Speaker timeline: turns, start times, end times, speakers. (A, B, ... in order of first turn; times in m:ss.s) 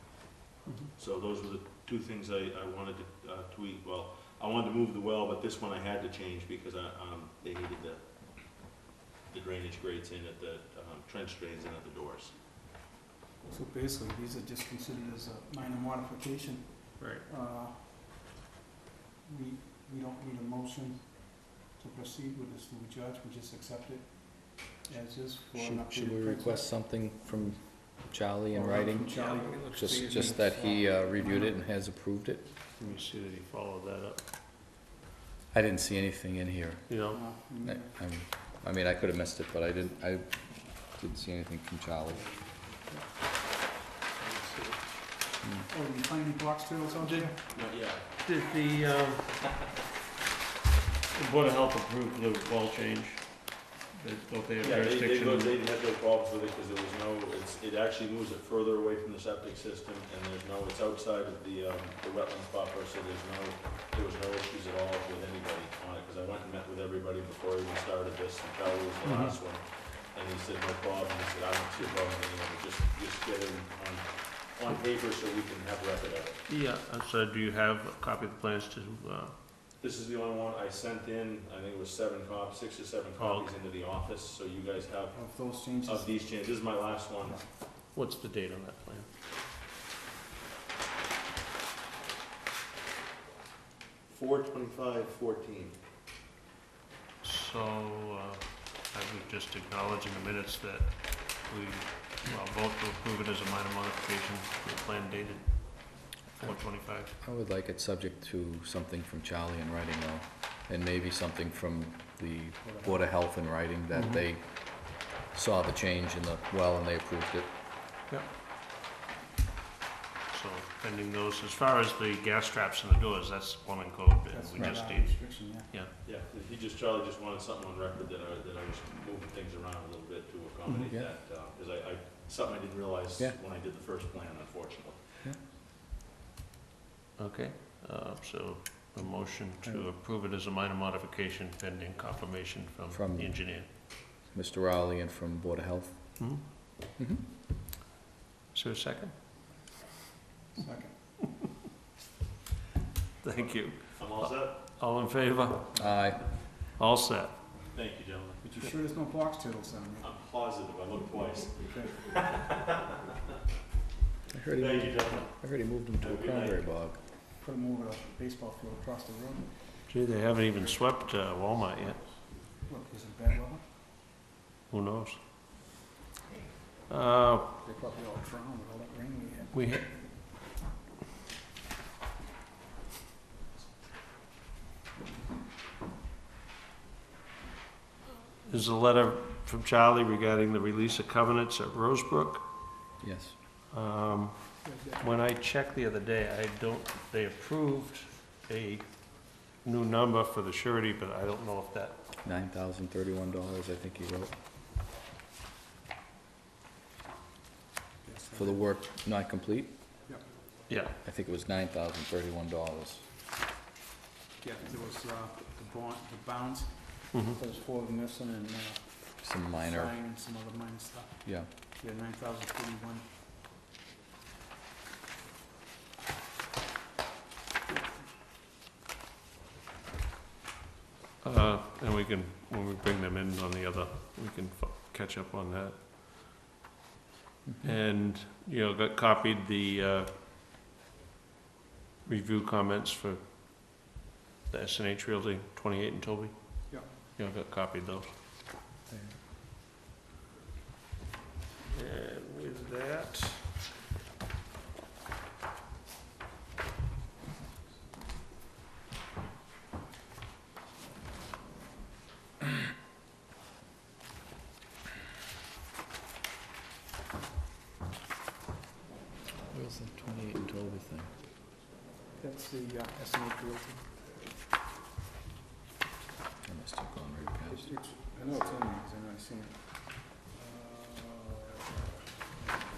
0:01.0-0:08.6 A
0:09.3-0:12.4 A
0:13.5-0:18.3 B
0:17.0-0:17.2 C
0:19.2-0:26.7 B
0:25.5-0:32.5 D
0:28.5-0:31.6 B
0:29.1-0:30.1 C
0:32.8-0:34.2 C
0:35.5-0:42.4 D
0:36.9-0:37.2 C
0:37.1-0:38.0 B
0:42.8-0:43.4 B
0:44.0-0:47.4 B
0:45.4-0:45.7 D
0:47.0-0:47.7 C
0:47.5-0:48.3 A
0:48.2-0:49.4 C
0:51.1-0:55.5 C
0:54.6-1:16.4 A
1:09.1-1:09.3 D
1:16.5-1:19.3 C
1:19.8-1:27.4 A
1:23.2-1:23.5 C
1:25.1-1:26.2 B
1:27.9-1:29.1 C
1:34.1-1:35.8 A
1:37.2-1:47.1 C
1:46.4-1:57.5 D
1:52.6-1:53.0 B
1:53.9-1:54.2 C
2:00.3-2:05.2 C
2:04.3-2:05.7 B
2:04.6-2:04.8 D
2:06.0-2:15.3 A
2:10.7-2:11.1 D
2:17.2-2:23.7 C
2:19.6-2:19.9 D
2:22.9-2:27.3 D
2:28.5-2:29.1 C
2:30.6-2:31.2 B
2:33.2-2:37.4 C
2:33.4-2:34.6 A
2:35.8-2:36.2 D
2:37.7-2:38.4 A
2:38.4-2:40.1 B
2:40.0-2:43.2 A
2:41.7-2:42.1 B
2:44.3-2:47.0 D
2:44.5-2:46.6 A
2:47.4-2:49.7 B
2:49.8-2:52.2 C
2:52.6-2:53.7 B
2:54.7-2:55.2 C
2:56.9-2:57.5 C
2:57.6-2:59.5 B
2:59.5-3:00.2 C
3:08.4-3:12.4 C
3:13.0-3:13.4 D
3:13.7-3:22.0 C
3:14.6-3:15.1 B
3:22.2-3:24.4 D
3:28.0-3:28.7 B
3:28.3-3:29.8 D
3:30.7-3:31.0 C
3:31.0-3:33.0 D
3:34.4-3:43.1 B
3:37.1-3:37.4 C
3:39.2-3:40.0 D
3:41.2-3:41.5 D
3:47.7-3:48.0 B
3:51.2-3:55.8 C
3:57.4-3:57.7 D
3:57.6-4:00.1 C
4:02.0-4:03.9 C
4:04.5-4:08.1 C
4:08.9-4:09.2 D
4:11.7-4:13.6 C
4:29.4-4:31.1 D
4:32.2-4:34.0 B
4:36.4-4:37.7 D
4:37.5-4:41.7 B